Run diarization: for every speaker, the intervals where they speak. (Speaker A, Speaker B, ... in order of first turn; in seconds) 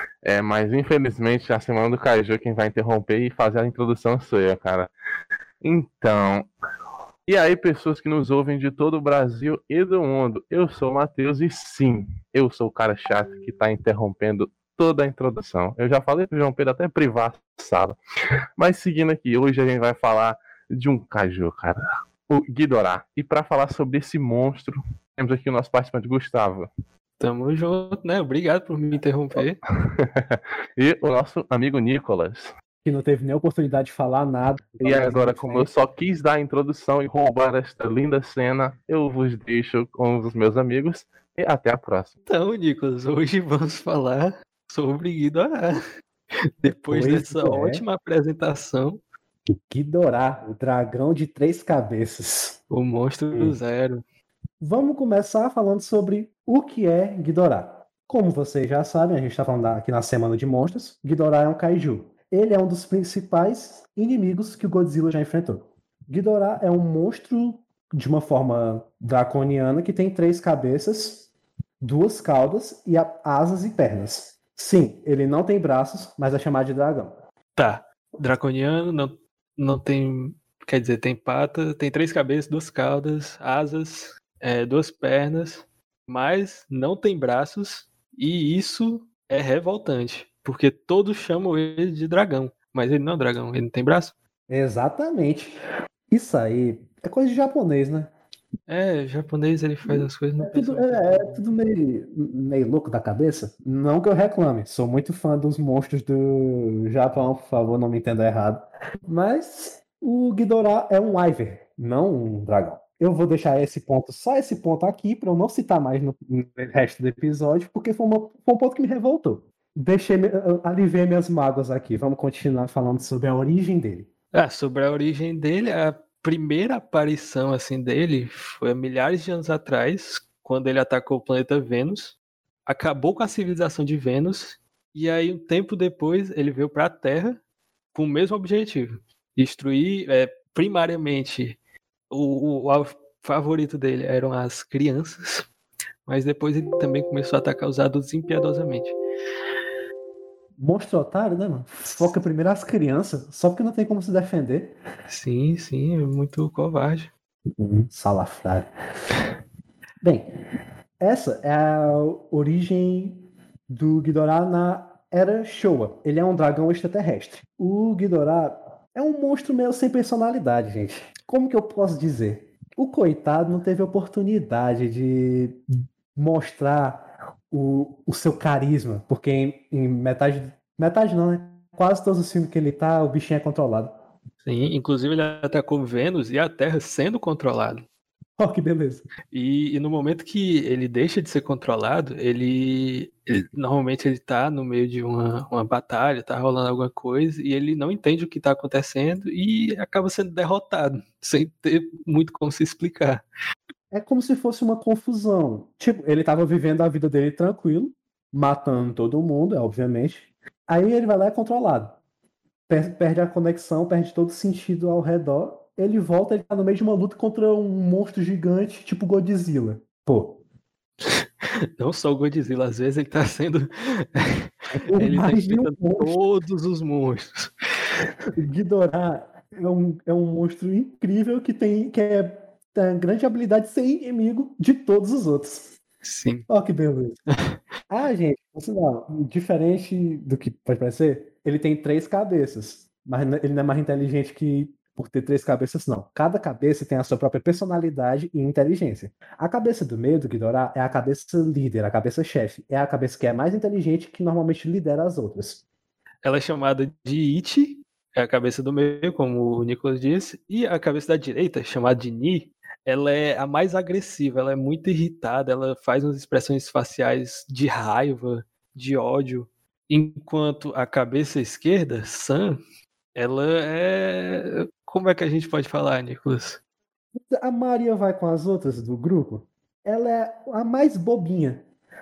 Speaker A: 0.2-4.9, 5.6-6.5, 7.3-18.0, 18.6-26.7, 29.9-32.5, 34.8-42.1
Speaker B: 27.2-29.6, 42.3-45.8, 46.6-49.0, 52.7-54.0, 77.6-94.2, 98.7-101.4, 124.3-137.4, 137.9-141.6, 142.1-145.5, 146.1-149.0, 155.1-157.1, 184.4-187.8, 189.3-203.2, 221.0-227.5, 236.1-236.5, 256.2-272.6, 273.1-276.6
Speaker C: 32.8-35.7, 46.9-47.8, 49.5-52.6, 53.3-53.6, 54.6-71.3, 71.8-77.2, 94.5-95.6, 96.1-98.1, 99.9-124.1, 150.6-154.8, 157.6-158.7, 160.0-160.3, 161.0-175.6, 176.2-183.9, 188.4-189.1, 203.9-212.0, 212.7-220.4, 224.9-226.2, 228.4-235.8, 236.5-237.2, 237.9-255.6, 277.2-281.6